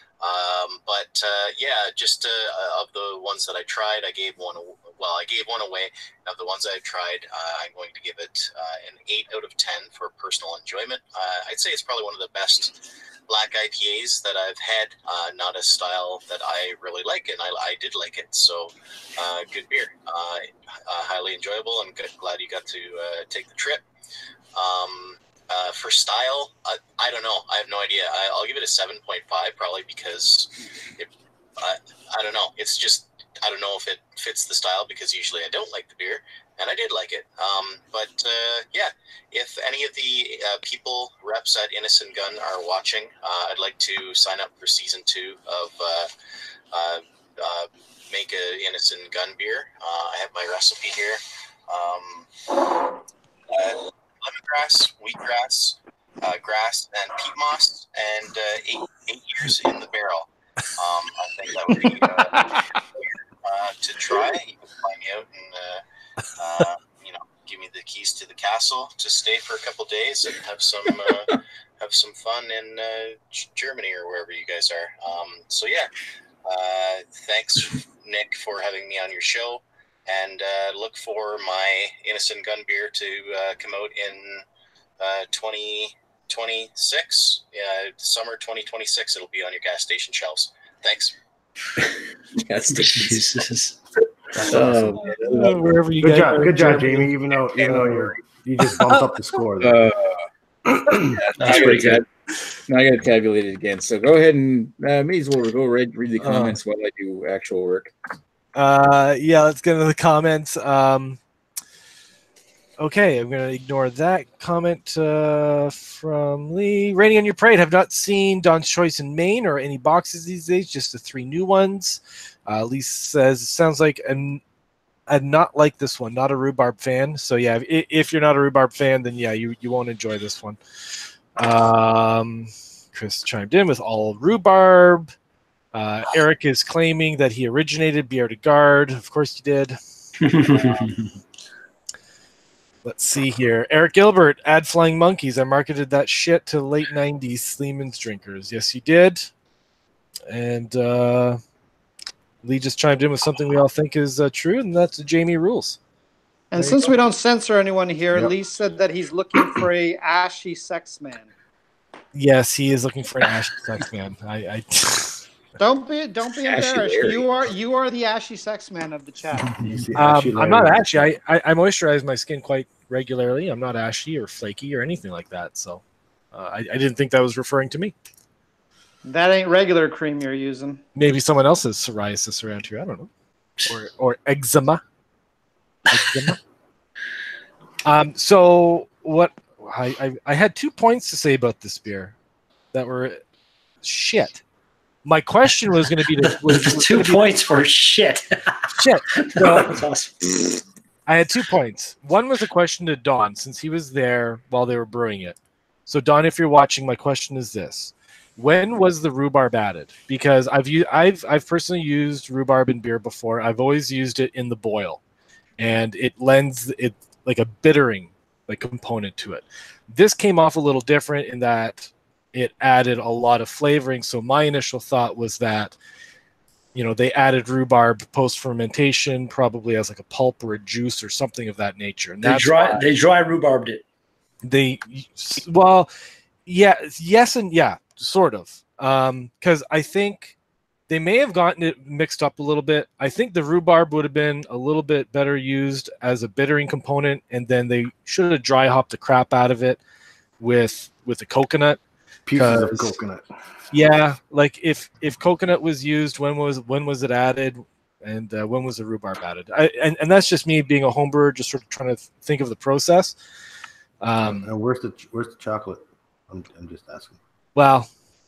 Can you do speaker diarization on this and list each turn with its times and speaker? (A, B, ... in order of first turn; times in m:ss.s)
0:00.2-0:23.8 A
0:24.5-0:46.1 A
0:46.7-1:05.8 A
1:06.4-1:15.9 A
1:16.4-1:24.4 A
1:25.0-1:31.1 A
1:31.8-1:33.2 B
1:32.7-1:33.8 C
1:34.4-1:35.0 D
1:34.5-1:35.8 B
1:35.0-1:37.1 E
1:36.0-1:39.8 D
1:37.6-1:38.1 B
1:39.6-1:40.2 B
1:40.7-1:41.2 D
1:41.0-1:42.0 B
1:41.4-1:42.0 C
1:42.7-1:47.9 B
1:46.2-1:46.6 E
1:48.6-1:51.2 E
1:52.8-2:04.4 E
2:05.1-2:10.6 E
2:11.4-2:15.1 E
2:15.7-2:19.8 E
2:20.2-2:21.1 C
2:20.3-2:20.9 E
2:22.8-2:29.3 E
2:30.3-2:31.4 E
2:32.4-2:35.8 E
2:36.5-2:41.3 F
2:36.6-2:36.9 E
2:42.1-2:45.2 E
2:45.6-2:49.6 F
2:46.4-2:47.3 B
2:49.6-2:51.1 D
2:49.9-2:55.8 E
2:56.3-2:57.9 E
2:59.0-3:00.8 F
3:00.9-3:03.1 E
3:03.6-3:04.8 E
3:05.9-3:06.4 E
3:07.8-3:12.1 E
3:12.7-3:13.2 E
3:13.8-3:14.4 E
3:15.0-3:17.2 E
3:16.4-3:20.6 C
3:18.8-3:19.8 E
3:21.1-3:35.0 E
3:35.6-3:45.7 E
3:46.7-3:52.8 E
3:52.2-3:53.8 C
3:54.4-3:55.9 E
3:56.4-4:00.3 E
4:00.9-4:09.8 E
4:10.4-4:11.8 E
4:12.2-4:13.2 D
4:12.4-4:12.9 E
4:13.7-4:23.1 E
4:24.0-4:24.5 E
4:24.2-4:27.2 D
4:27.6-4:27.9 E